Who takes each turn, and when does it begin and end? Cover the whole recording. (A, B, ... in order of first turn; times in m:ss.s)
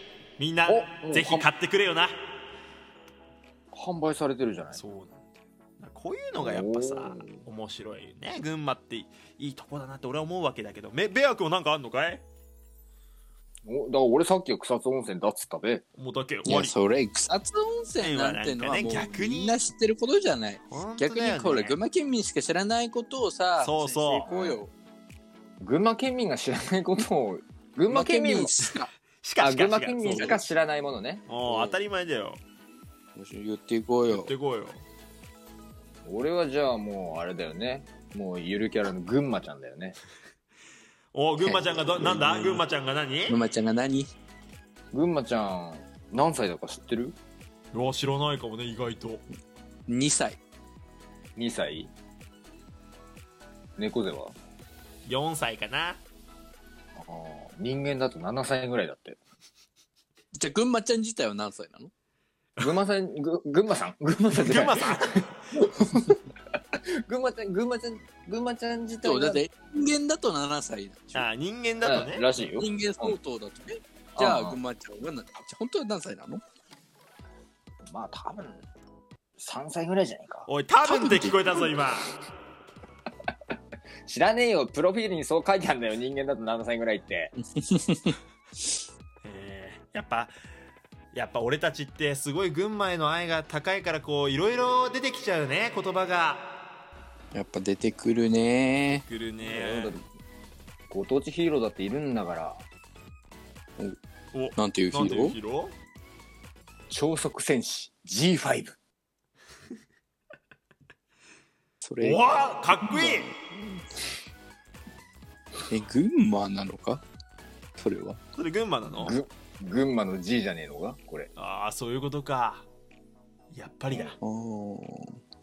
0:00.4-0:02.2 A
0:00.7-0:01.5 B
0:03.7-0:04.8 B
0:04.7-0:05.3 A
0:05.8-0:12.2 A
0:06.4-0:07.4 B
0:13.7-0:15.8 B
0:16.0-0:16.7 A
0:16.5-0:24.7 C
0:18.0-0:19.6 A
0:20.7-0:21.8 A
0:23.6-0:24.3 A
0:24.2-0:24.6 B
0:25.6-0:28.5 B
0:27.9-0:28.9 C
0:29.2-0:30.4 A
0:29.4-0:31.2 B
0:30.0-0:30.4 C
0:31.3-0:32.4 A
0:31.4-0:31.8 C
0:33.2-0:34.3 C
0:34.1-0:34.8 A
0:36.0-0:40.0 B
0:41.1-0:43.4 A
0:41.4-0:42.6 C
0:43.3-0:44.1 C
0:44.9-0:47.2 B
0:47.7-0:49.2 A
0:49.9-0:50.4 C
0:51.4-0:51.9 B
0:53.8-0:54.4 B
0:55.0-0:56.0 A
0:57.0-0:59.2 B
1:00.4-1:01.9 C
1:02.6-1:06.2 B
1:04.4-1:05.4 A
1:07.1-1:09.4 B
1:09.0-1:11.3 C
1:11.1-1:12.2 A
1:11.8-1:13.2 B
1:12.6-1:16.4 C
1:14.2-1:14.6 B
1:17.9-1:18.6 B
1:19.4-1:20.5 B
1:20.5-1:22.1 A
1:20.8-1:21.7 C
1:24.1-1:27.3 B
1:27.5-1:28.2 C
1:29.2-1:30.3 A
1:31.1-1:36.5 A
1:37.3-1:39.0 C
1:39.0-1:40.0 A
1:39.4-1:40.1 B
1:40.9-1:42.6 B
1:44.3-1:45.7 A
1:44.6-1:45.4 C
1:46.9-1:48.8 B
1:51.8-1:52.2 C
1:52.0-1:53.3 A
1:52.8-1:53.4 C
1:55.7-1:57.0 C
1:57.8-1:58.2 C
1:58.4-1:59.2 A
1:59.0-2:01.3 B
2:01.4-2:02.7 A
2:03.5-2:04.2 A
2:04.2-2:05.2 C